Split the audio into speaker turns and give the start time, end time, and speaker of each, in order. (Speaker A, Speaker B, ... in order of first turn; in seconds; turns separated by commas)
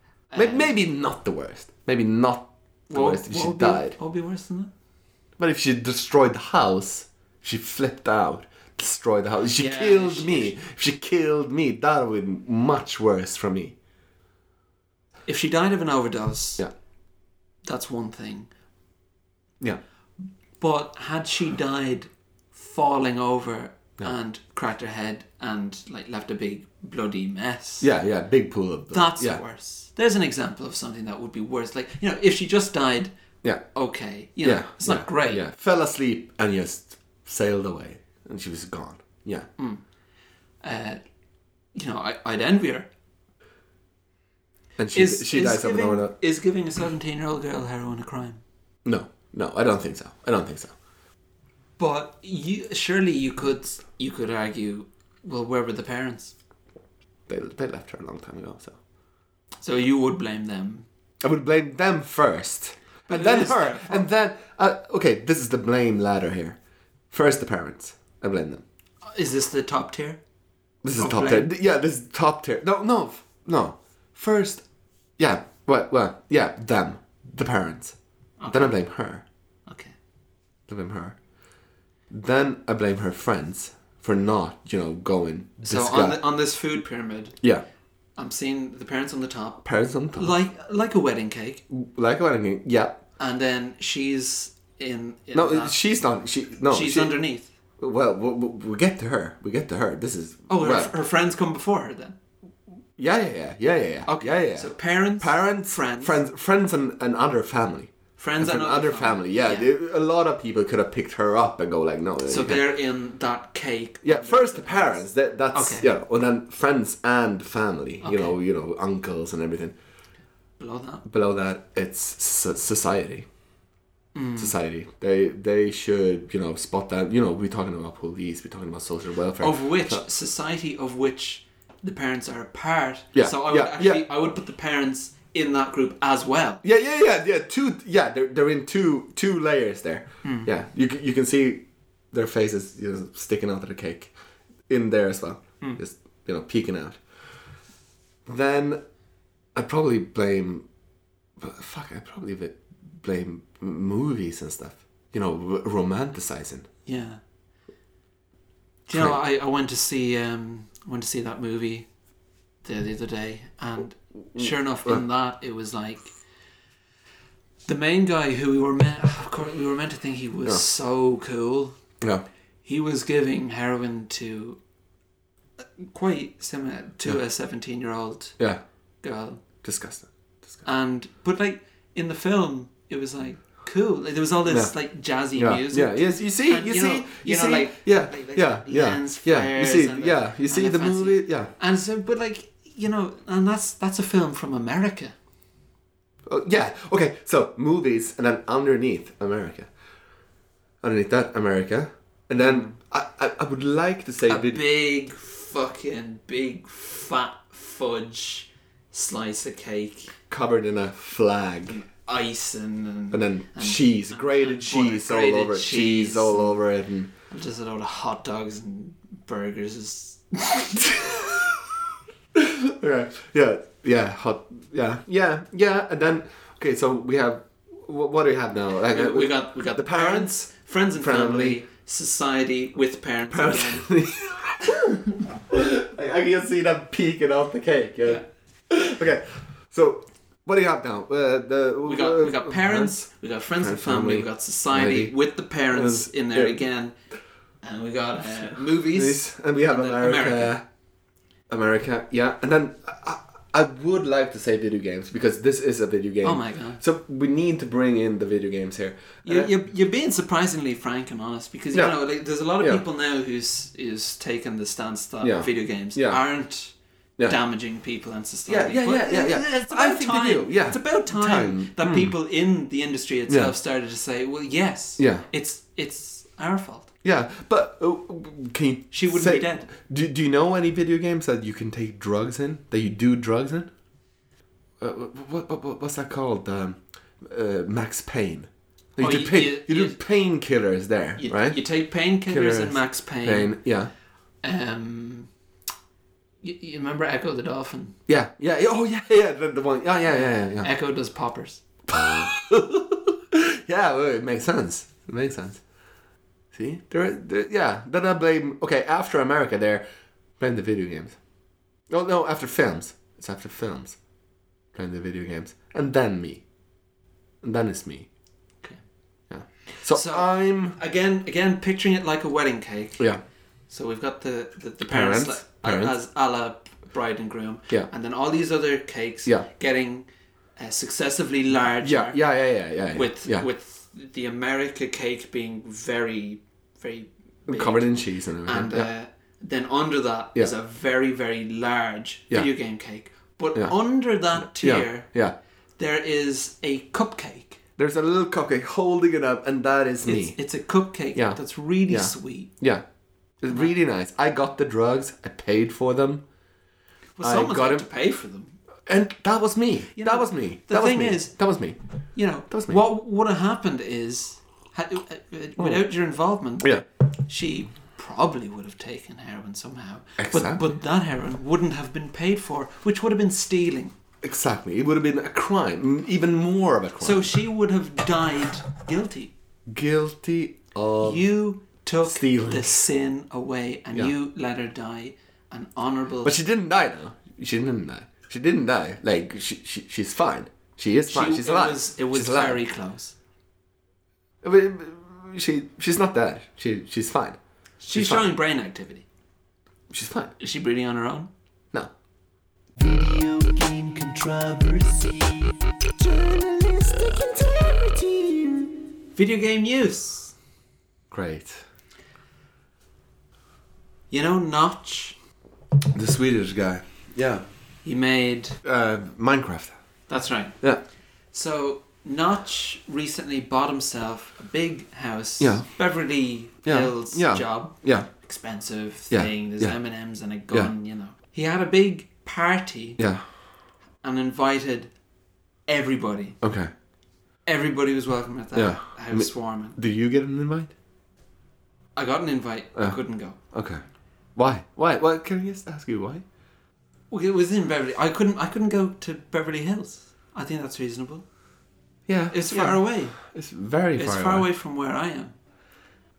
Speaker A: 0.3-0.8, Speaker B: 0.3-4.0, Speaker A: 2.9-4.7, Speaker B: 5.4-13.8, Speaker A: 9.6-10.5, Speaker A: 15.3-16.6, Speaker A: 17.6-18.5, Speaker A: 20.6-27.9, Speaker B: 27.8-29.4, Speaker A: 28.9-33.1, Speaker A: 33.7-35.4, Speaker B: 34.4-39.5, Speaker A: 40.6-41.0, Speaker A: 41.7-42.9, Speaker B: 44.8-46.1, Speaker A: 44.9-48.4, Speaker B: 48.8-50.7, Speaker A: 51.8-56.3, Speaker B: 57.3-58.8, Speaker A: 59.6-60.9, Speaker B: 61.2-66.6, Speaker A: 63.1-64.1, Speaker B: 67.1-68.6, Speaker A: 69.0-70.2, Speaker B: 70.8-74.6, Speaker A: 71.0-71.5, Speaker B: 75.2-78.0, Speaker A: 78.4-78.8, Speaker B: 78.5-79.2, Speaker A: 79.7-79.9, Speaker B: 80.7-81.2, Speaker B: 82.1-86.2, Speaker A: 85.6-87.4, Speaker A: 88.2-89.6, Speaker B: 89.6-90.3, Speaker A: 90.1-91.6, Speaker B: 91.7-93.0, Speaker A: 93.2-95.8, Speaker B: 95.3-97.2, Speaker A: 96.7-97.5, Speaker B: 97.8-100.9, Speaker A: 100.5-102.2, Speaker B: 103.0-112.6, Speaker A: 104.0-106.2, Speaker A: 108.2-109.7, Speaker A: 112.3-115.9, Speaker B: 114.0-119.8, Speaker A: 118.0-118.3, Speaker A: 120.6-121.0, Speaker B: 121.0-123.3, Speaker A: 124.1-124.5, Speaker B: 124.4-130.0, Speaker A: 129.4-136.6, Speaker B: 133.1-134.1, Speaker B: 136.6-144.1, Speaker A: 140.2-140.5, Speaker B: 144.7-147.0, Speaker B: 148.2-148.8, Speaker B: 149.5-150.7, Speaker B: 151.4-156.7, Speaker A: 156.8-157.2, Speaker A: 158.9-161.9, Speaker B: 158.9-159.2, Speaker A: 162.6-166.1, Speaker B: 164.3-165.0, Speaker A: 167.7-171.8, Speaker A: 172.6-174.6, Speaker A: 175.6-178.4, Speaker A: 179.0-179.4, Speaker B: 179.6-180.6, Speaker A: 180.6-195.1, Speaker B: 184.4-184.7, Speaker B: 185.3-191.5, Speaker B: 196.2-199.7, Speaker B: 200.8-204.6, Speaker A: 202.4-202.8, Speaker A: 204.3-210.1, Speaker B: 210.3-211.8, Speaker A: 211.7-216.6, Speaker B: 213.1-217.1, Speaker A: 217.3-221.0, Speaker B: 220.9-221.5, Speaker B: 222.3-230.4, Speaker A: 228.9-233.9, Speaker B: 231.0-231.6, Speaker B: 233.3-245.1, Speaker A: 241.8-246.9, Speaker B: 245.7-246.6, Speaker A: 247.6-250.6, Speaker B: 248.4-250.6, Speaker B: 251.5-259.5, Speaker A: 256.2-256.8, Speaker A: 259.2-276.9, Speaker B: 265.2-266.2, Speaker B: 268.5-272.1, Speaker B: 273.3-273.5, Speaker B: 275.0-275.2, Speaker B: 277.0-283.7, Speaker A: 278.9-279.7, Speaker B: 284.8-291.6, Speaker A: 289.0-290.0, Speaker A: 291.2-293.6, Speaker B: 292.3-293.9, Speaker A: 294.4-295.3, Speaker A: 296.4-298.0, Speaker B: 298.1-300.7, Speaker A: 300.1-301.6, Speaker B: 301.9-305.6, Speaker B: 306.5-309.8, Speaker B: 310.4-311.2, Speaker B: 311.9-314.0, Speaker B: 314.7-316.4, Speaker B: 317.4-318.1, Speaker B: 319.3-320.8, Speaker A: 319.8-323.1, Speaker A: 323.7-332.2, Speaker B: 324.8-326.0, Speaker B: 331.8-333.5, Speaker A: 332.9-345.1, Speaker B: 337.5-338.9, Speaker B: 344.4-345.4, Speaker A: 345.8-347.6, Speaker B: 347.8-350.4, Speaker A: 350.0-352.5, Speaker B: 351.1-352.8, Speaker B: 353.4-356.2, Speaker A: 357.2-358.6, Speaker B: 357.2-357.9, Speaker B: 358.9-361.8, Speaker A: 359.9-361.4, Speaker A: 362.1-373.9, Speaker B: 362.5-362.8, Speaker B: 365.6-365.8, Speaker B: 370.2-370.6, Speaker B: 374.2-377.4, Speaker A: 377.0-379.3, Speaker B: 379.7-381.2, Speaker A: 381.0-386.4, Speaker B: 382.0-382.8, Speaker B: 386.2-392.6, Speaker A: 391.1-393.1, Speaker B: 394.4-397.4, Speaker A: 397.8-399.1, Speaker B: 397.9-398.3, Speaker B: 399.9-400.3, Speaker A: 400.4-401.3, Speaker A: 402.8-408.5, Speaker B: 406.8-407.5, Speaker A: 409.1-410.3, Speaker B: 411.1-411.6, Speaker A: 414.1-415.2, Speaker B: 415.9-417.4, Speaker A: 417.8-418.6, Speaker B: 418.6-419.8, Speaker A: 420.1-420.6, Speaker A: 421.3-433.0, Speaker B: 425.4-425.7, Speaker B: 426.6-428.1, Speaker B: 429.1-429.8, Speaker B: 433.0-433.2, Speaker A: 434.0-434.9, Speaker A: 435.7-436.4, Speaker B: 436.4-436.7, Speaker A: 437.4-439.8, Speaker B: 438.5-440.7, Speaker A: 441.9-443.4, Speaker B: 443.5-443.8, Speaker B: 444.4-446.2, Speaker A: 447.1-451.2, Speaker B: 452.1-454.5, Speaker A: 452.3-453.2, Speaker A: 453.9-455.3